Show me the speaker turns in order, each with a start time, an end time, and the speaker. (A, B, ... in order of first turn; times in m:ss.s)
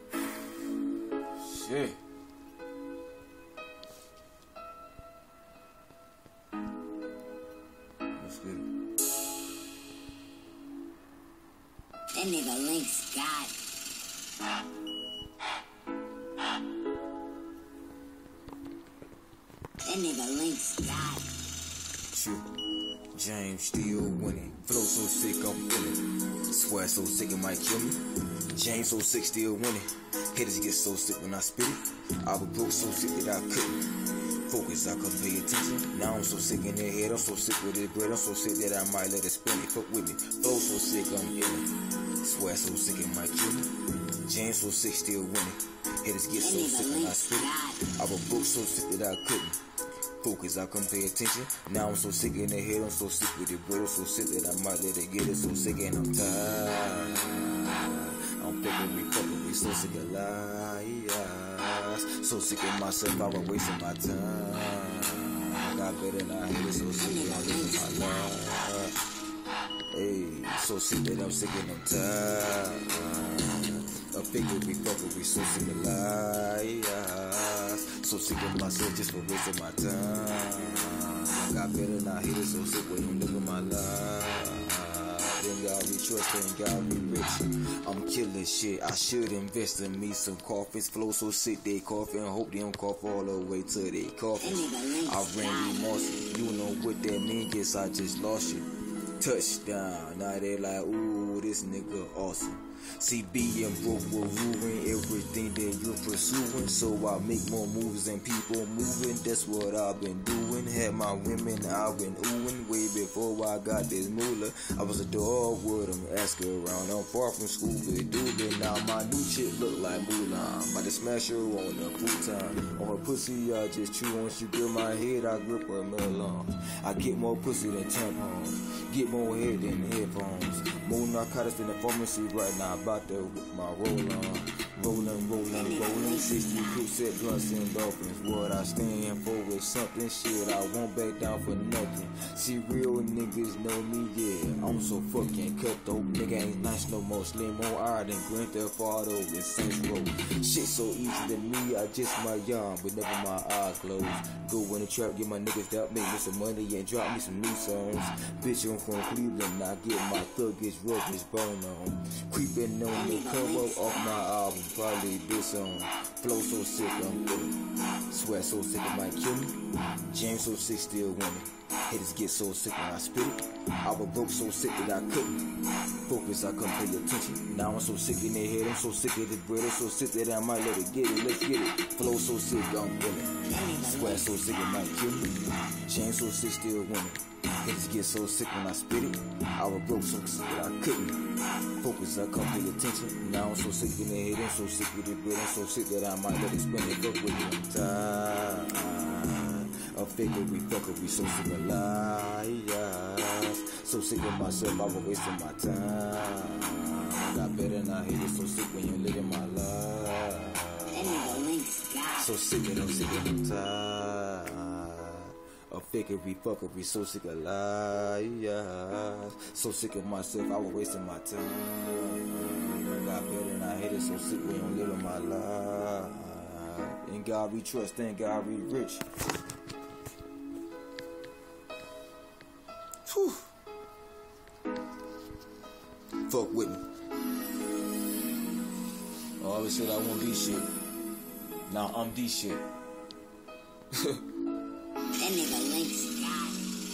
0:01.4-0:02.0 A
0:08.2-0:08.7 A
0:12.1-0:13.5 B
0:19.8-0:21.3 B
0:22.1-0:22.4 A
0:23.1-0:28.0 A
0:28.5-0:43.7 A
0:44.2-0:49.6 A
0:46.4-0:47.8 B
0:50.2-1:08.9 A
1:07.0-1:08.4 B
1:09.9-2:47.6 A
1:34.4-1:36.0 B
2:15.5-2:16.9 B
2:42.9-2:44.2 B
2:48.1-2:49.6 A
2:50.1-2:55.4 A
2:56.0-3:05.3 A
3:03.4-3:04.3 B
3:05.8-3:11.2 A
3:11.8-3:31.5 A
3:30.9-3:32.3 B
3:32.2-3:49.0 A
3:53.0-3:53.5 A
3:56.3-3:56.8 A
3:59.4-4:00.7 A
4:01.7-4:02.6 A
4:05.2-4:06.6 B